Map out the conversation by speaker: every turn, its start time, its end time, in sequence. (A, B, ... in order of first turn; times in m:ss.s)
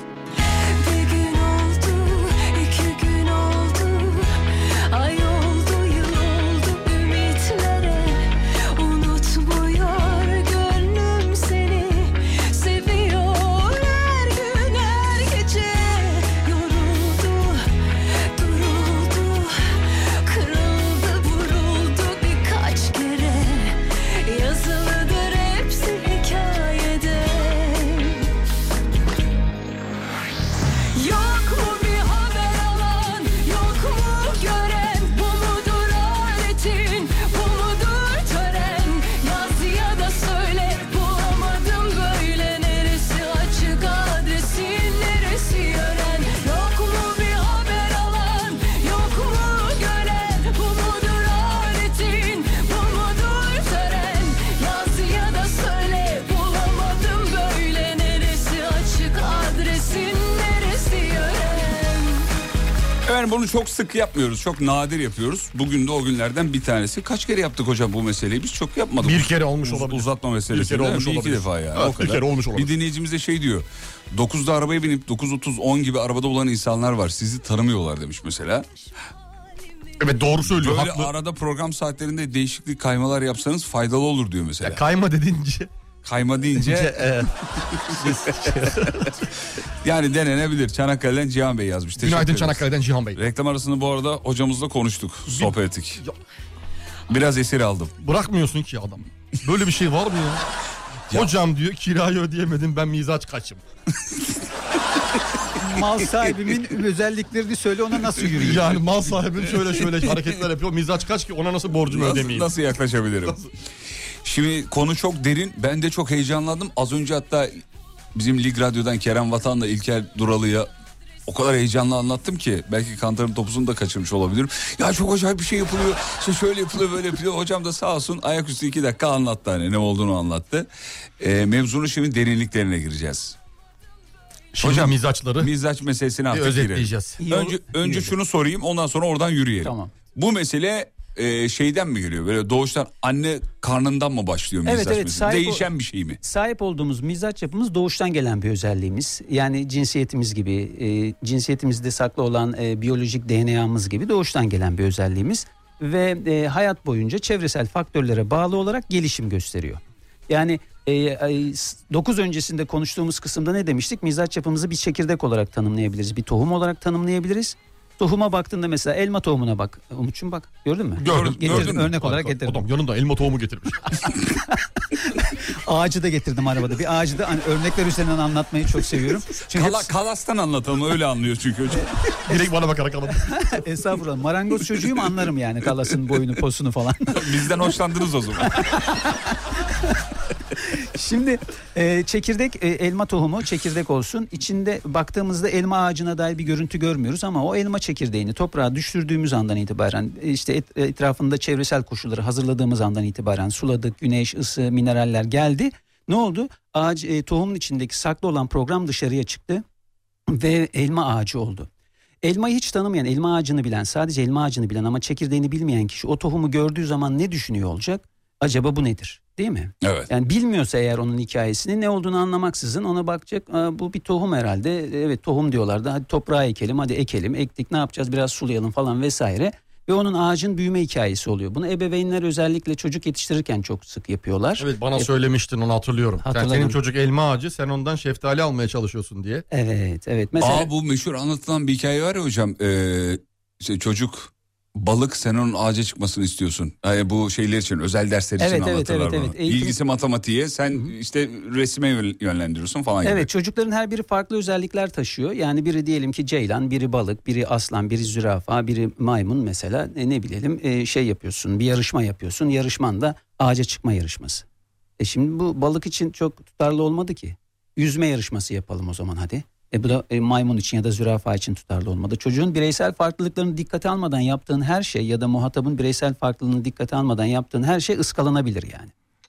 0:00.8-0:28.3 A
0:30.9-1:02.3 A
1:03.0-1:18.7 B
1:09.0-1:12.7 C
1:20.0-1:21.1 C
1:20.4-1:24.8 B
1:24.6-1:25.7 C
1:26.0-1:27.1 B
1:26.6-1:29.1 C
1:29.8-1:36.0 B
1:32.0-1:33.2 C
1:35.3-1:36.2 C
1:37.1-1:37.9 B
1:38.0-1:40.4 C
1:41.1-1:43.6 C
1:45.6-1:48.8 D
1:48.2-1:48.8 B
1:48.4-1:52.5 C
1:49.4-1:50.3 B
1:51.9-1:53.5 B
1:54.2-1:57.6 B
1:58.1-2:00.7 B
2:01.3-2:10.7 B
2:11.2-2:13.4 B
2:14.6-2:15.5 C
2:14.6-2:26.2 B
2:16.3-2:17.2 C
2:17.2-2:18.1 D
2:19.6-2:19.9 D
2:24.6-2:25.7 D
2:26.2-2:52.6 D
2:51.0-2:53.9 C
2:51.0-2:51.9 B
2:54.2-2:59.9 D
2:59.5-3:01.9 B
3:01.8-3:02.4 D
3:02.3-3:03.5 C
3:03.3-3:07.8 D
3:07.1-3:08.7 B
3:08.4-3:10.0 D
3:10.6-3:29.6 D
3:30.3-3:31.7 D
3:32.2-3:55.1 D
3:39.8-3:40.1 B
3:54.6-3:59.4 C
3:56.2-3:56.8 D
3:59.5-4:00.7 D
4:00.4-4:13.3 B
4:08.4-4:09.8 D
4:13.0-4:24.4 D
4:25.0-4:38.9 D